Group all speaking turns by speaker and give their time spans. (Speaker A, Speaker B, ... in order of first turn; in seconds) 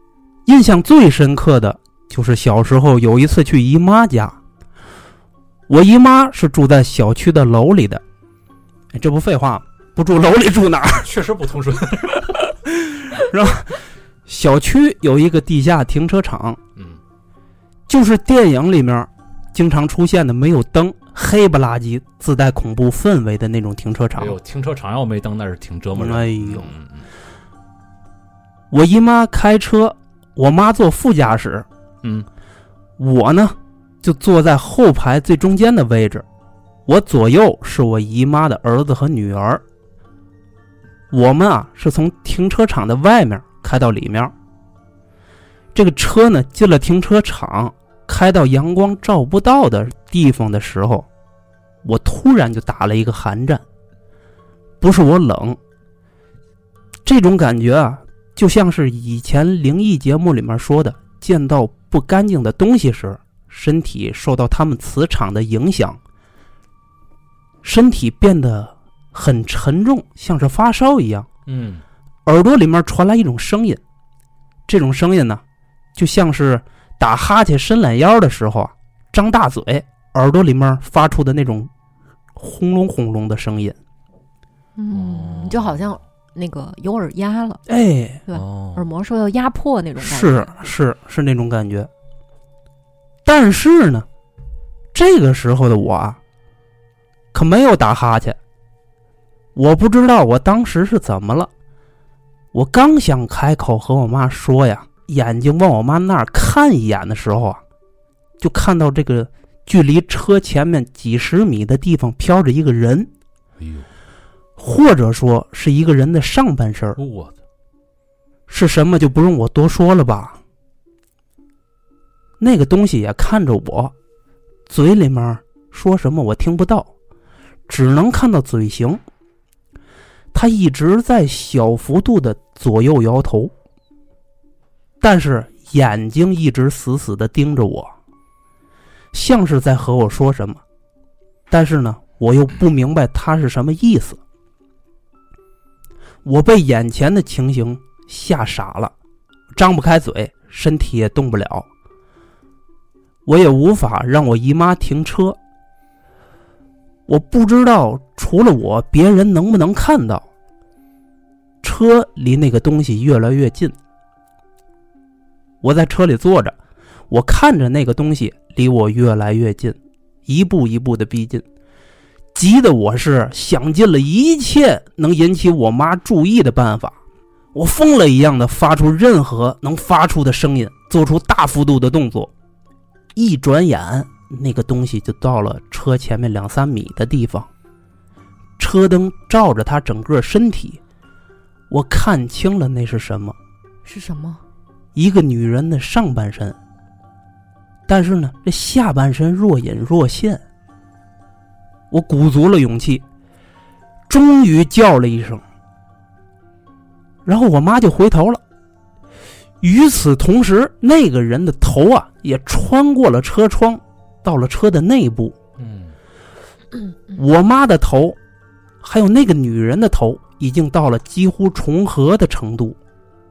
Speaker A: 0.5-4.4, 5.7-8.0, 8.9-11.1, 12.7-16.6, 17.9-24.4, 26.0-26.7, 28.7-31.7, 33.0-36.3, 36.9-39.6, 41.1-44.3, 45.7-51.1, 51.8-53.6, 54.8-55.6, 57.0-66.0, 67.6-71.3, 72.3-73.8, 74.7-75.4, 76.0-81.7, 82.4-83.8, 87.7-88.2, 90.0-91.9, 93.2-94.1, 94.9-96.2, 97.3-98.4, 99.5-101.5, 102.5-107.6, 108.4-113.1, 114.6-117.0, 118.5-120.4, 122.4-123.9, 124.7-126.9, 127.7-129.0, 130.3-133.5, 135.0-137.9, 139.1-140.6, 141.5-144.2, 146.2-148.9, 149.6-151.7, 153.3-155.4, 157.1-160.3, 161.6-163.8, 165.6-166.6, 167.1-171.4, 172.3-177.0, 177.5-182.3, 183.2-187.5, 188.6-190.8, 191.7-193.4, 194.9-196.6, 197.9-200.4, 201.9-203.0, 204.1-205.4, 207.2-208.4, 209.6-215.4, 217.1-218.2, 218.8-222.8
Speaker B: 11.0-12.4, 24.2-27.1, 71.5-71.8, 84.9-85.9, 88.3-88.8, 113.6-113.9, 117.0-117.3, 215.6-216.0
Speaker C: 84.8-87.6, 88.3-90.5, 193.8-194.4